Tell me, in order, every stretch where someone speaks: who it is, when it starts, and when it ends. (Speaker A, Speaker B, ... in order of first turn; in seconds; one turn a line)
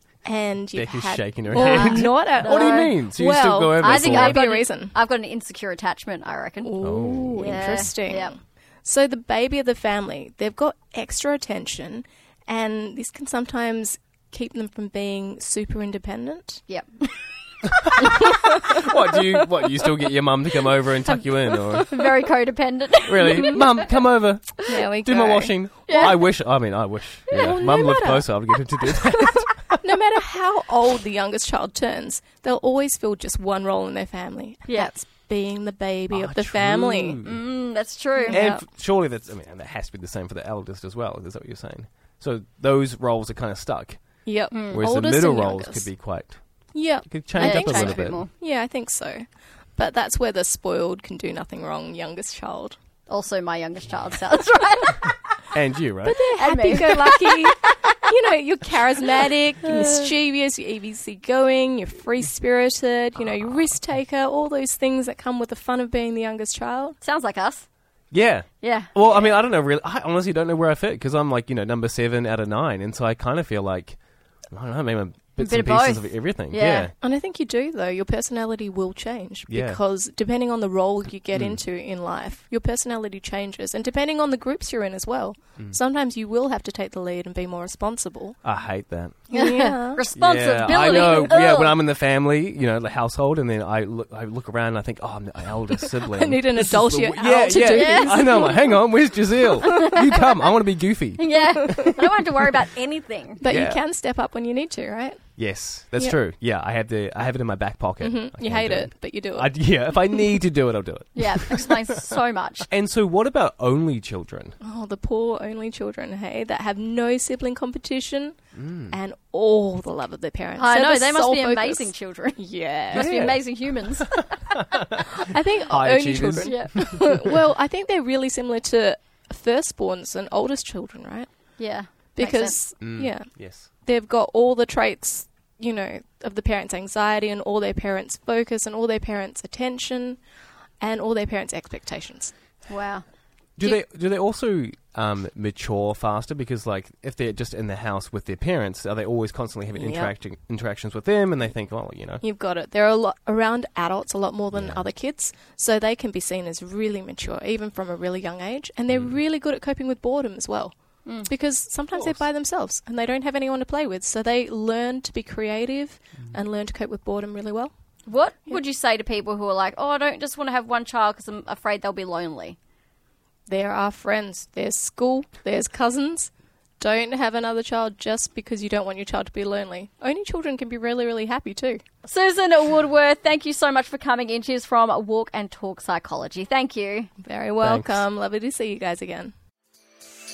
Speaker A: 0.2-5.0
Speaker B: 0.7-4.4
Speaker C: 1.5-6.8
Speaker A: 6.6-16.6
Speaker B: 6.8-7.9
Speaker C: 7.4-8.3
Speaker C: 16.7-17.1
Speaker B: 17.8-22.1
Speaker A: 18.3-18.8
Speaker C: 21.8-23.7
Speaker B: 23.1-29.6
Speaker A: 24.7-26.1
Speaker C: 25.9-26.2
Speaker C: 27.3-27.7
Speaker A: 27.3-37.2
Speaker C: 34.7-34.9
Speaker B: 36.1-37.5
Speaker C: 37.2-38.4
Speaker A: 38.2-38.7
Speaker B: 38.3-44.0
Speaker A: 44.2-45.9
Speaker C: 44.5-44.8
Speaker B: 44.7-46.4
Speaker A: 46.7-49.3
Speaker B: 47.0-48.2
Speaker C: 47.4-48.3
Speaker A: 49.8-52.8
Speaker C: 53.1-55.1
Speaker B: 55.5-56.2
Speaker A: 56.0-67.0
Speaker C: 56.3-57.7
Speaker C: 59.6-60.1
Speaker C: 67.0-67.7
Speaker B: 68.1-74.0
Speaker C: 68.6-69.3
Speaker B: 74.5-76.9
Speaker C: 75.4-76.9
Speaker A: 77.0-88.4
Speaker B: 79.5-79.8
Speaker B: 81.3-81.6
Speaker B: 88.4-89.2
Speaker A: 89.3-90.1
Speaker C: 89.3-91.8
Speaker B: 90.2-102.0
Speaker A: 95.8-99.1
Speaker C: 97.7-98.4
Speaker A: 99.6-100.0
Speaker C: 99.7-100.3
Speaker C: 101.2-103.4
Speaker A: 101.4-102.0
Speaker A: 103.4-105.2
Speaker B: 103.5-103.8
Speaker B: 105.4-112.2
Speaker A: 108.0-109.5
Speaker A: 110.1-110.4
Speaker C: 111.2-112.7
Speaker B: 112.7-114.6
Speaker A: 114.6-118.4
Speaker B: 118.6-119.0
Speaker A: 118.9-123.2
Speaker C: 120.6-124.5
Speaker B: 122.9-123.4
Speaker B: 124.6-125.1
Speaker A: 125.0-131.3
Speaker B: 125.7-127.3
Speaker C: 126.4-126.8
Speaker C: 131.6-132.6
Speaker A: 132.2-140.2
Speaker B: 132.8-133.7
Speaker A: 140.8-142.3
Speaker C: 142.7-143.1
Speaker B: 143.6-152.2
Speaker A: 149.8-150.2
Speaker A: 152.2-167.7
Speaker B: 154.5-154.8
Speaker B: 158.9-159.2
Speaker B: 161.9-162.2
Speaker C: 168.1-172.6
Speaker A: 173.5-181.8
Speaker C: 182.1-187.1
Speaker A: 187.2-189.3
Speaker B: 187.6-188.1